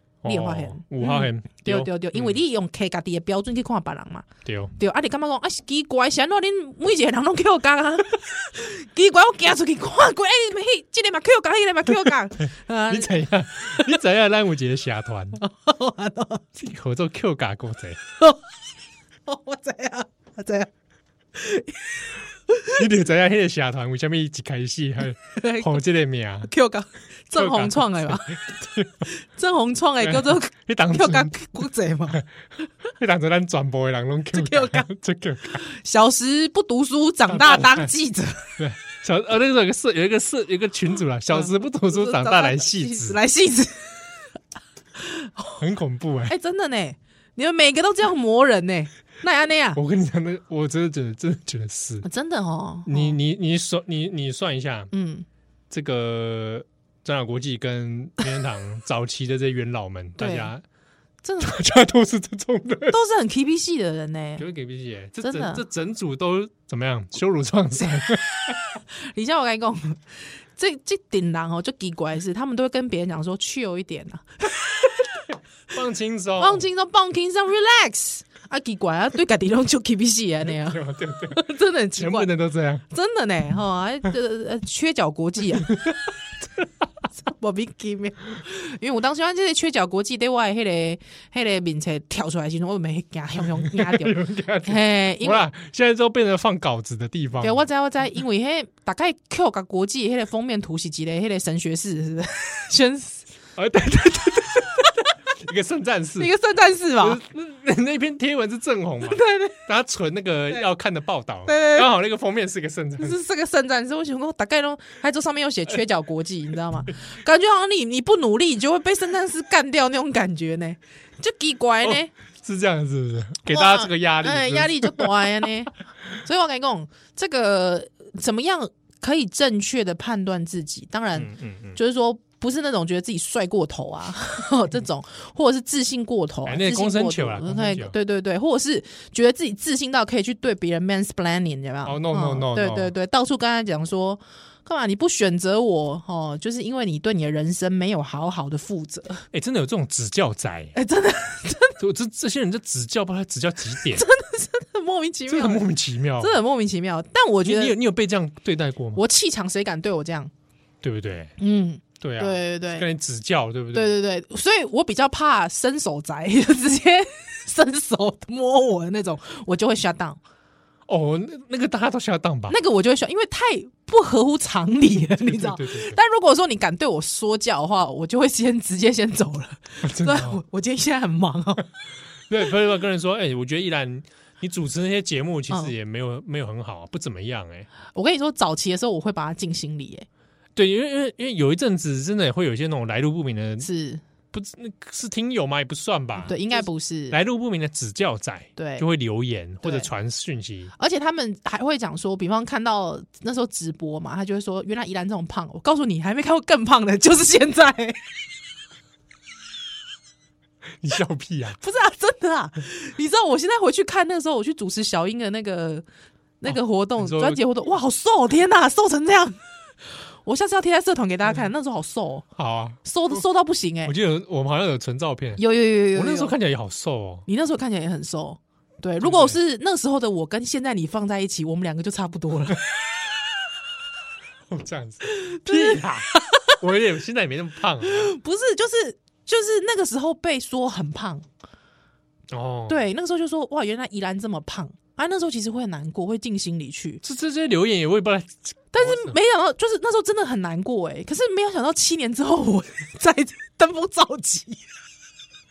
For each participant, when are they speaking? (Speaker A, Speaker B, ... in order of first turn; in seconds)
Speaker A: 0.2-2.4, 4.4-4.7, 12.9-15.4, 16.6-18.0, 22.8-26.5, 27.3-29.0, 30.0-32.2, 32.9-35.6, 37.3-37.9, 38.6-43.2, 45.6-46.3, 49.7-52.1, 52.9-54.9, 55.7-60.6, 61.4-63.0, 64.4-68.6, 75.7-76.7, 80.5-82.8, 93.5-97.6, 103.6-106.3, 107.0-113.2, 121.8-125.5, 131.2-131.8, 136.4-137.9, 141.8-142.9, 149.3-150.7, 151.8-154.0, 155.3-156.4, 157.4-159.0, 160.8-161.3, 162.0-163.9, 170.9-172.6, 175.2-176.0, 179.8-180.4, 182.3-187.7, 190.5-193.7, 194.3-200.7, 210.8-211.6, 216.4-217.4, 222.4-222.8, 223.8-225.4, 225.9-227.3, 229.0-229.4, 234.5-238.1, 242.3-242.9, 247.0-249.2
Speaker B: 0.2-13.9, 15.4-16.5, 19.3-20.7, 21.3-22.8, 25.3-25.8, 26.4-28.4, 29.0-32.2, 34.3-34.9, 35.5-38.6, 41.3-44.0, 45.0-45.6, 46.3-49.8, 52.0-53.2, 54.9-55.2, 60.2-60.5, 61.2-61.5, 62.9-64.4, 65.2-65.6, 69.0-75.0, 76.4-82.3, 82.9-85.8, 87.2-95.5, 97.4-103.2, 106.2-107.2, 109.0-109.6, 111.5-111.9, 113.0-122.1, 123.5-149.2, 150.7-151.8, 153.8-155.7, 156.2-157.7, 158.9-160.3, 161.4-162.8, 163.7-170.2, 172.5-181.7, 187.9-190.1, 193.6-194.0, 196.2-197.2, 198.6-198.8, 199.6-199.9, 200.8-208.1, 211.6-215.8, 216.4-219.4, 220.2-222.2, 222.8-223.9, 225.4-226.3, 227.3-232.6, 235.1-236.5, 237.8-241.2, 242.7-247.0, 248.7-254.6